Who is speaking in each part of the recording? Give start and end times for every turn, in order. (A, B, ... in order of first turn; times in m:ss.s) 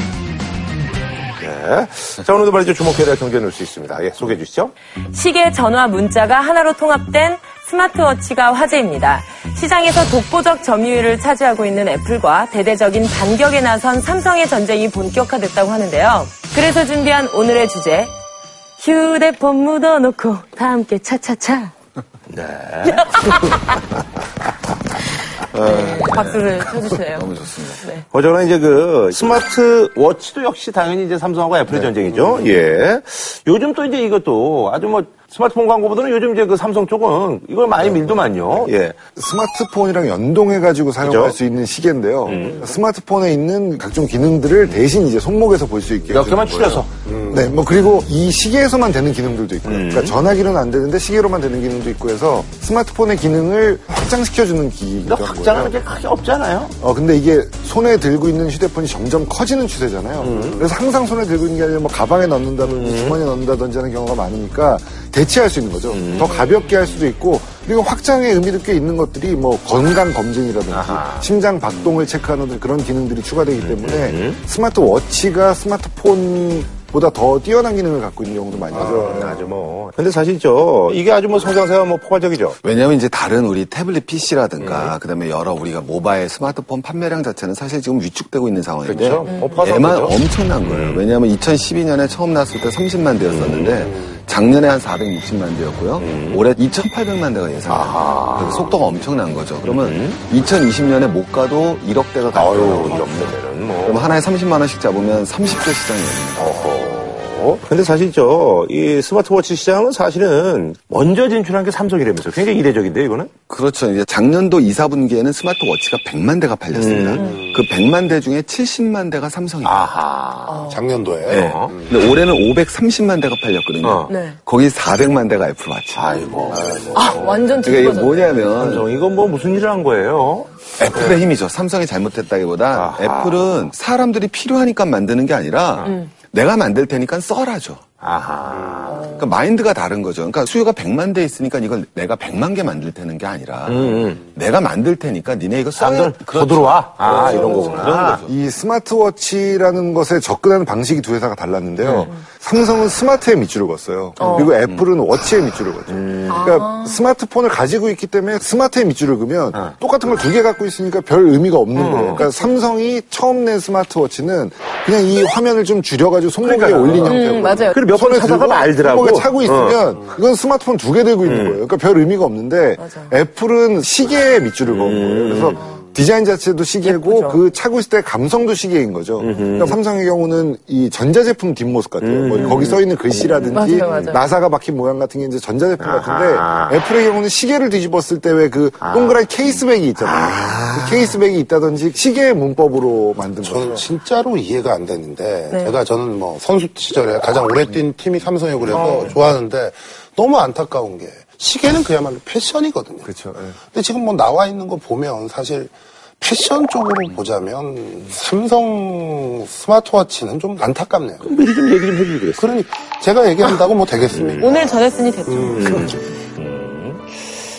0:01.4-0:04.7 A
0:05.1-0:18.1 B
0:18.8-0:21.7 B
0:22.3-0:23.6 A
0:22.8-0:23.8 B
0:25.5-0:27.8 C
0:25.5-0:28.0 B
0:28.1-0:39.0 A
0:39.2-0:55.7 D
0:41.0-0:41.4 A
0:42.2-0:42.7 A
0:46.1-0:46.9 A
0:47.0-0:47.5 E
0:49.6-0:50.1 A
0:55.0-0:56.7 A
0:56.8-1:19.4 D
1:00.2-1:00.6 A
1:02.6-1:03.2 A
1:05.9-1:06.3 A
1:06.2-1:06.4 B
1:10.7-1:11.3 A
1:13.6-1:14.4 A
1:18.7-1:22.6 A
1:22.6-1:46.7 C
1:24.6-1:24.9 A
1:28.8-1:31.0 A
1:29.2-1:29.6 B
1:33.2-1:33.9 A
1:36.0-1:36.4 A
1:37.7-1:38.7 A
1:39.6-1:40.2 A
1:42.3-1:44.1 A
1:46.4-1:53.3 A
1:53.5-1:59.9 C
1:56.7-1:57.2 A
1:57.2-1:57.5 B
1:57.2-1:57.5 E
1:59.6-2:00.7 A
2:00.5-2:00.8 B
2:00.7-2:02.0 E
2:01.3-2:01.7 A
2:01.3-2:06.0 C
2:03.8-2:04.1 A
2:04.1-2:04.4 B
2:05.9-2:07.2 A
2:06.5-2:07.0 E
2:06.9-2:08.4 B
2:07.6-2:08.9 C
2:08.5-2:11.1 A
2:10.8-2:17.8 C
2:12.7-2:13.7 A
2:18.0-2:19.2 A
2:18.9-2:19.3 B
2:19.1-2:28.3 C
2:23.7-2:24.2 A
2:25.8-2:28.2 A
2:27.2-2:27.8 B
2:28.3-3:13.8 D
2:31.8-2:32.1 A
2:34.2-2:34.5 A
2:34.2-2:34.5 B
2:35.9-2:36.4 A
2:36.3-2:37.0 B
2:41.7-2:42.2 A
2:42.0-2:42.5 B
2:46.4-2:49.8 A
2:47.1-2:47.8 B
2:51.2-2:51.6 A
2:52.8-2:53.2 B
2:54.7-2:55.6 A
2:56.8-2:57.4 B
2:59.2-2:59.8 A
3:02.0-3:02.8 A
3:03.3-3:04.2 A
3:03.5-3:04.2 B
3:05.8-3:06.8 A
3:08.8-3:11.2 A
3:13.4-3:23.1 E
3:15.5-3:15.8 B
3:18.8-3:19.1 B
3:23.1-3:23.6 D
3:23.7-3:31.3 E
3:31.2-3:32.5 A
3:32.4-3:34.8 E
3:34.1-3:34.5 A
3:34.4-3:36.0 B
3:35.3-3:36.0 E
3:35.6-3:37.0 A